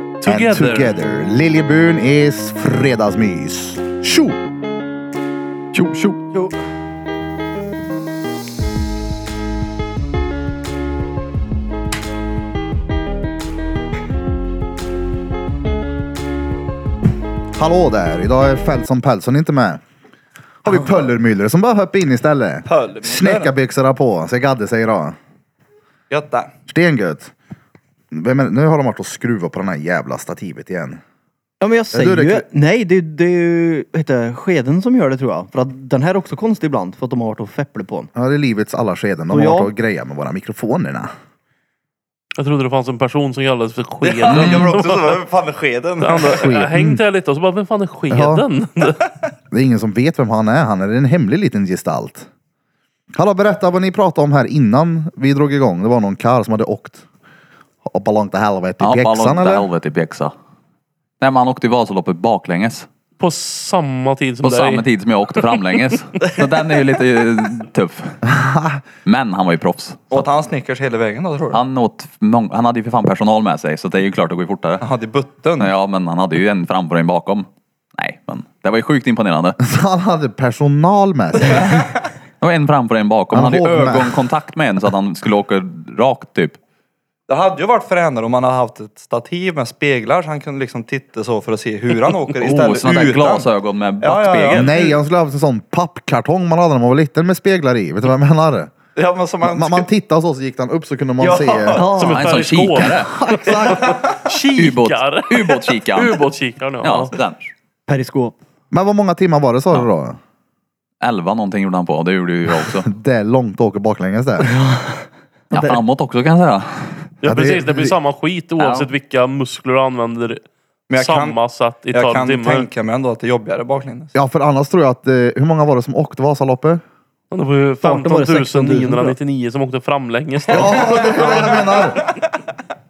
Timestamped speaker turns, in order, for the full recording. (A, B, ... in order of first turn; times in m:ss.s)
0:00.2-0:00.9 A
0:00.2-0:04.4 B
0:05.7-0:06.2 C
0:17.6-0:19.8 B
0:20.6-0:25.2 B
0:22.6-0:23.5 D
0:26.1-0:26.5 D
0:26.7-0:27.3 B
0:28.1-0:31.0 B
0:31.6-0:38.1 E
0:31.9-0:32.4 B
0:38.1-0:41.1 B
0:39.3-0:39.7 E
0:42.4-0:45.2 A
0:44.0-0:46.4 D
0:44.3-0:44.7 C
0:46.0-0:49.0 A
0:46.4-0:47.0 B
0:48.1-0:48.4 B
0:49.5-0:52.3 B
0:53.1-0:57.0 B
0:57.8-0:59.7 B
0:58.8-1:00.3 C
1:01.2-1:02.9 C
1:03.2-1:04.9 A
1:04.4-1:08.2 C
1:08.2-1:08.8 B
1:09.0-1:10.3 C
1:10.1-1:11.6 D
1:11.5-1:14.9 C
1:14.8-1:15.7 D
1:15.6-1:19.6 C
1:19.6-1:21.8 B
1:22.4-1:26.6 C
1:23.3-1:24.2 B
1:27.3-1:33.5 D
1:32.4-1:34.7 C
1:34.0-1:35.0 D
1:34.5-1:38.7 B
1:38.9-1:39.9 D
1:39.4-1:41.9 B
1:41.2-1:42.0 D
1:41.7-1:42.3 E
1:41.9-1:47.2 A
1:42.1-1:43.1 C
1:43.2-1:43.9 B
1:43.6-1:44.2 D
1:44.5-1:46.2 C
1:46.8-1:47.5 C
1:47.9-1:48.4 E
1:48.7-1:50.2 B
1:51.0-1:52.9 C
1:52.6-1:54.5 B
1:54.4-1:55.8 E
1:55.5-1:57.1 C
1:57.2-2:02.7 A
1:57.2-1:57.9 B
1:58.6-1:58.9 C
2:00.9-2:04.1 D
2:04.1-2:06.8 B
2:07.3-2:11.0 A
2:07.8-2:09.1 E
2:10.5-2:12.0 B
2:10.9-2:12.2 D